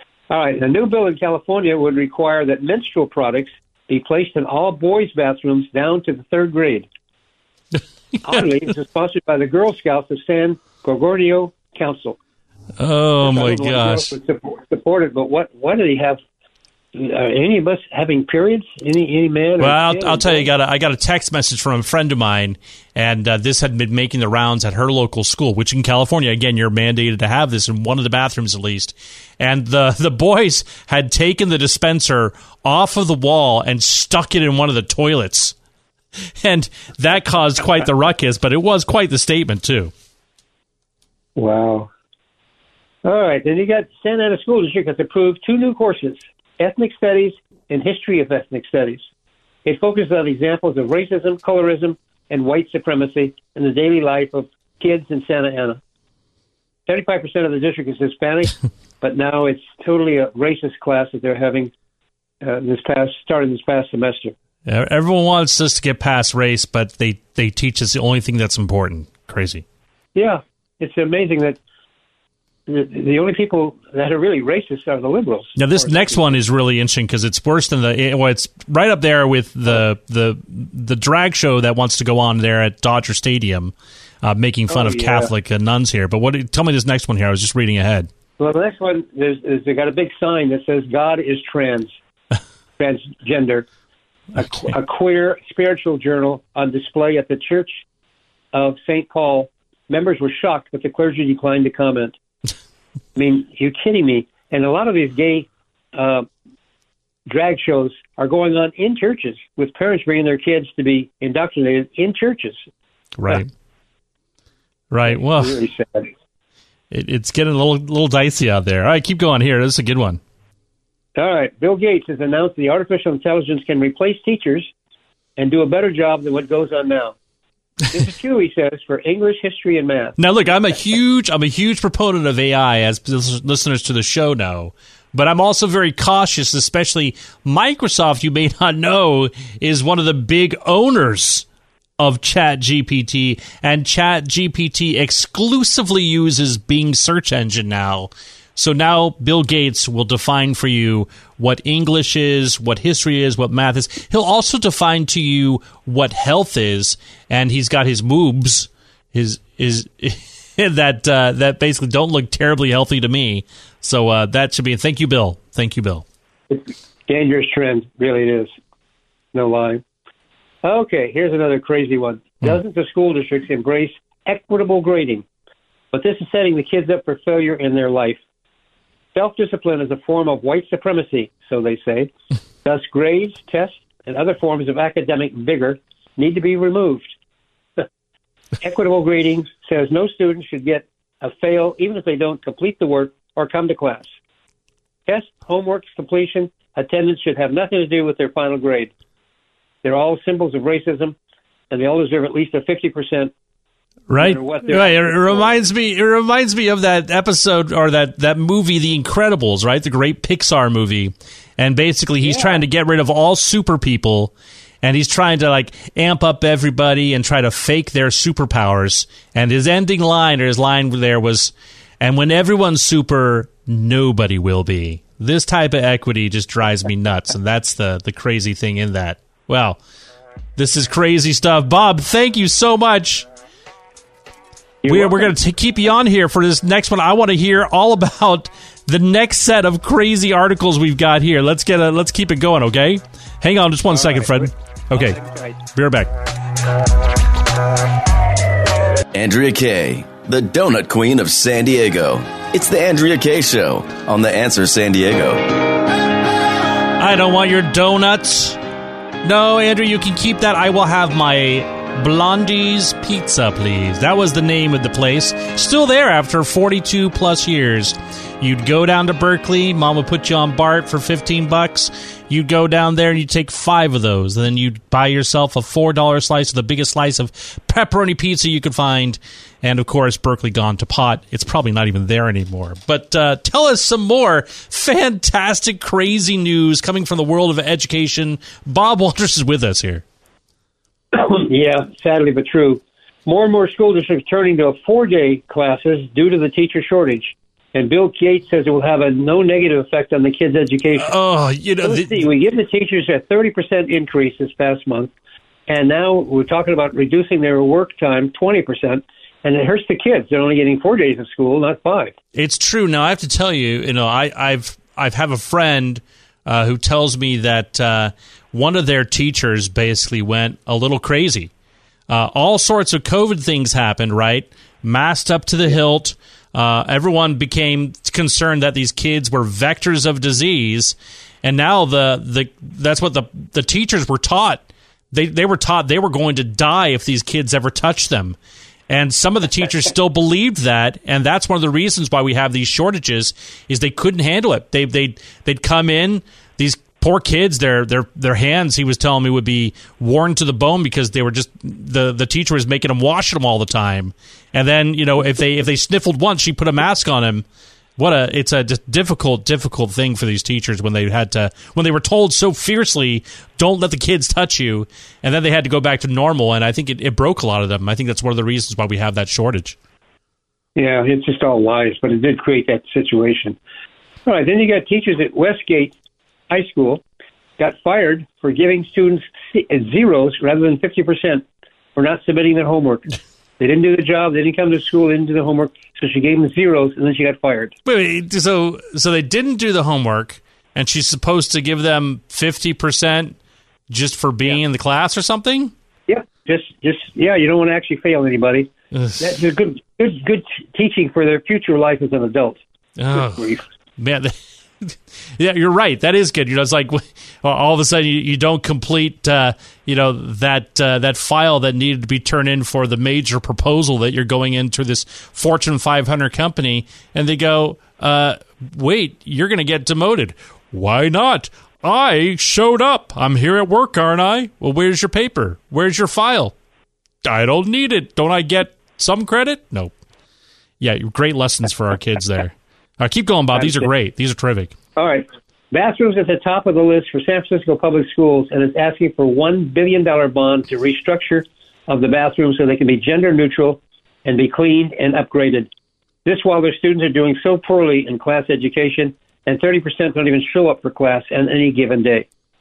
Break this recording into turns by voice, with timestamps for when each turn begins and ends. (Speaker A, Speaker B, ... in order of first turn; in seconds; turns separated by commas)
Speaker A: 0.3-6.9, Speaker A: 8.2-12.2, Speaker B: 12.8-14.1, Speaker A: 13.2-16.2, Speaker A: 16.9-20.5, Speaker B: 19.6-35.5, Speaker B: 36.4-39.9, Speaker A: 41.4-41.9, Speaker A: 43.0-49.0, Speaker A: 49.6-55.8, Speaker A: 56.9-61.7, Speaker A: 62.4-64.3, Speaker B: 64.7-69.6, Speaker A: 70.2-71.6, Speaker A: 72.7-76.4, Speaker B: 75.6-88.1, Speaker A: 84.7-85.3, Speaker A: 88.4-92.0, Speaker A: 92.8-93.7, Speaker A: 94.4-97.8, Speaker A: 98.5-102.2, Speaker A: 103.2-106.3, Speaker A: 107.3-112.6, Speaker B: 113.2-113.5, Speaker B: 114.9-115.6, Speaker A: 115.1-116.1, Speaker B: 116.9-120.2, Speaker A: 121.2-124.7, Speaker A: 125.4-127.2, Speaker A: 127.9-130.2, Speaker B: 130.2-141.5, Speaker B: 142.0-166.1, Speaker A: 166.5-168.5, Speaker A: 169.3-169.8, Speaker A: 170.6-175.2, Speaker A: 175.9-178.2, Speaker A: 179.1-182.1, Speaker A: 182.6-187.1, Speaker A: 188.6-194.1, Speaker A: 195.1-198.9, Speaker A: 199.8-201.2, Speaker A: 201.7-203.3, Speaker B: 204.1-229.8, Speaker A: 204.2-205.6, Speaker A: 212.2-212.6, Speaker B: 230.6-233.3, Speaker A: 234.8-235.3, Speaker B: 234.9-245.2, Speaker A: 243.9-245.6, Speaker B: 245.8-246.1, Speaker C: 249.1-255.5, Speaker B: 257.0-258.6, Speaker B: 259.2-290.0, Speaker A: 291.1-301.1, Speaker B: 301.0-302.2, Speaker A: 301.8-305.1, Speaker A: 305.7-312.1, Speaker B: 312.4-321.5, Speaker B: 322.1-338.4, Speaker B: 338.9-357.5, Speaker B: 358.0-369.8, Speaker A: 370.8-373.6, Speaker A: 374.3-375.9, Speaker A: 376.5-377.0, Speaker A: 377.6-381.4, Speaker A: 382.0-383.1, Speaker A: 383.6-387.8, Speaker B: 387.9-393.4, Speaker B: 393.9-395.7, Speaker A: 396.1-402.6, Speaker B: 398.9-399.4, Speaker B: 403.0-426.6, Speaker A: 403.1-403.6, Speaker B: 427.2-429.9, Speaker B: 430.8-434.8, Speaker A: 433.6-433.9, Speaker A: 435.0-445.7, Speaker A: 446.3-452.3